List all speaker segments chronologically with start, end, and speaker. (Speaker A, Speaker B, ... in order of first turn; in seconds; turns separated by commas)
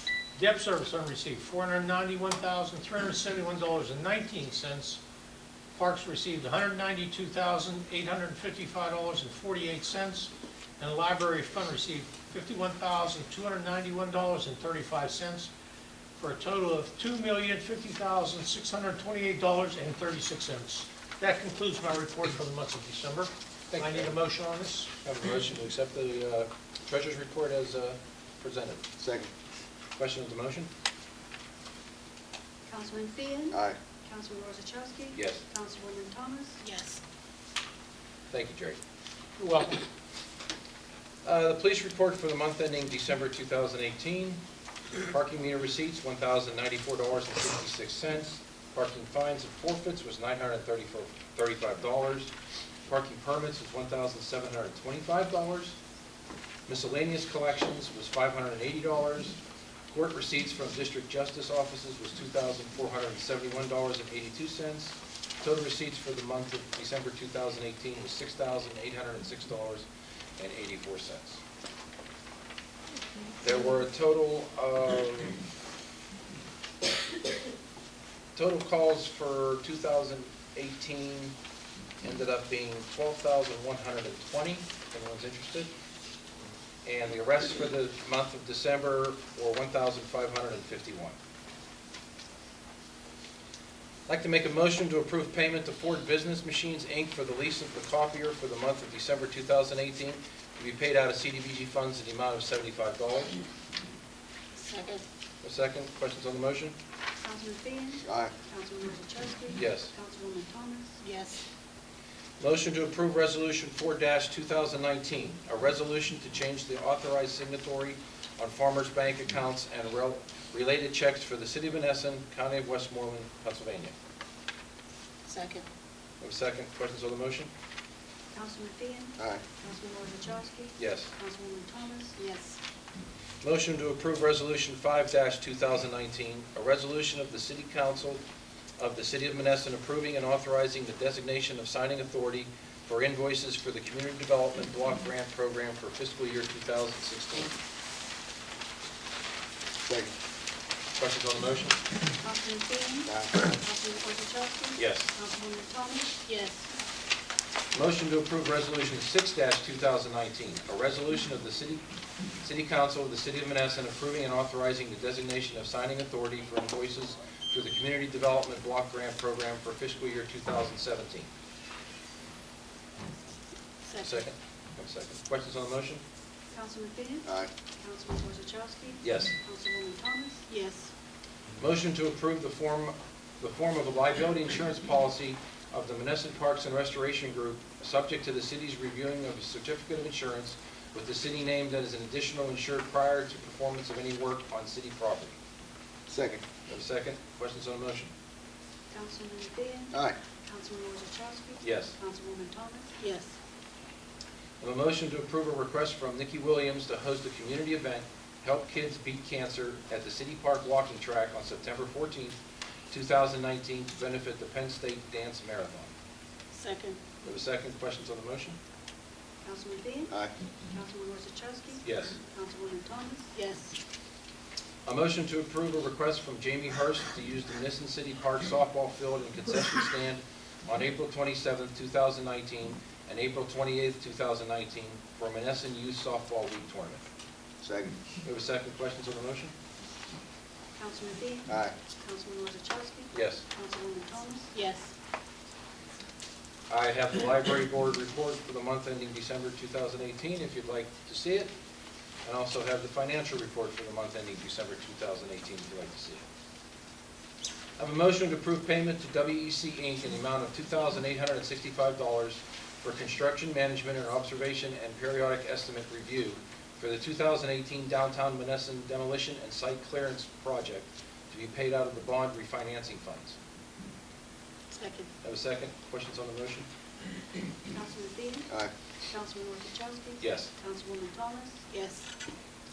Speaker A: 0.3-5.0, Speaker A: 5.7-15.5, Speaker A: 16.2-24.9, Speaker B: 23.7-24.1, Speaker B: 25.0-28.8, Speaker C: 29.0-29.3, Speaker B: 30.0-30.7, Speaker D: 32.7-36.6, Speaker B: 35.1-35.5, Speaker E: 36.6-37.0, Speaker B: 38.3-38.8, Speaker A: 39.4-39.8, Speaker B: 41.2-44.4, Speaker B: 45.0-52.3, Speaker B: 52.9-55.8, Speaker B: 56.7-59.4, Speaker B: 59.9-69.8, Speaker B: 70.4-71.4, Speaker B: 73.4-75.4, Speaker B: 78.3-81.3, Speaker B: 82.0-85.7, Speaker B: 86.8-91.2, Speaker B: 94.1-103.4, Speaker E: 104.6-105.0, Speaker B: 105.4-106.8, Speaker D: 107.2-111.0, Speaker C: 108.0-108.3, Speaker B: 109.5-109.9, Speaker E: 111.0-111.4, Speaker B: 112.4-123.9, Speaker E: 125.3-125.7, Speaker B: 126.2-127.5, Speaker D: 128.3-132.2, Speaker B: 130.8-131.1, Speaker E: 132.2-132.6, Speaker B: 133.4-138.2, Speaker B: 138.8-147.6, Speaker C: 149.8-150.1, Speaker B: 151.0-151.8, Speaker D: 152.2-156.2, Speaker C: 153.1-153.4, Speaker B: 154.8-155.1, Speaker E: 156.2-156.8, Speaker B: 157.7-161.8, Speaker B: 162.4-171.3, Speaker E: 173.9-174.2, Speaker B: 174.0-176.0, Speaker D: 176.5-177.3, Speaker D: 177.8-180.5, Speaker B: 179.0-179.3, Speaker E: 180.5-180.9, Speaker B: 181.6-195.4, Speaker C: 196.1-196.4, Speaker B: 196.7-198.1, Speaker D: 198.9-202.9, Speaker B: 201.6-202.0, Speaker E: 203.0-203.4, Speaker B: 204.6-212.4, Speaker B: 212.9-215.9, Speaker E: 216.5-217.1, Speaker B: 217.2-218.6, Speaker D: 219.4-220.1, Speaker D: 220.6-223.3, Speaker B: 221.8-222.2, Speaker E: 223.3-223.8, Speaker B: 224.9-237.0, Speaker C: 237.6-238.0, Speaker B: 238.2-239.5, Speaker D: 240.8-244.6, Speaker C: 241.5-241.8, Speaker B: 243.1-243.5, Speaker E: 244.5-244.9, Speaker B: 246.7-251.5, Speaker B: 252.2-256.2, Speaker B: 257.8-273.4, Speaker E: 274.7-275.1, Speaker B: 275.2-276.7, Speaker D: 277.7-278.5, Speaker D: 279.1-281.7, Speaker B: 280.2-280.6, Speaker E: 281.7-282.1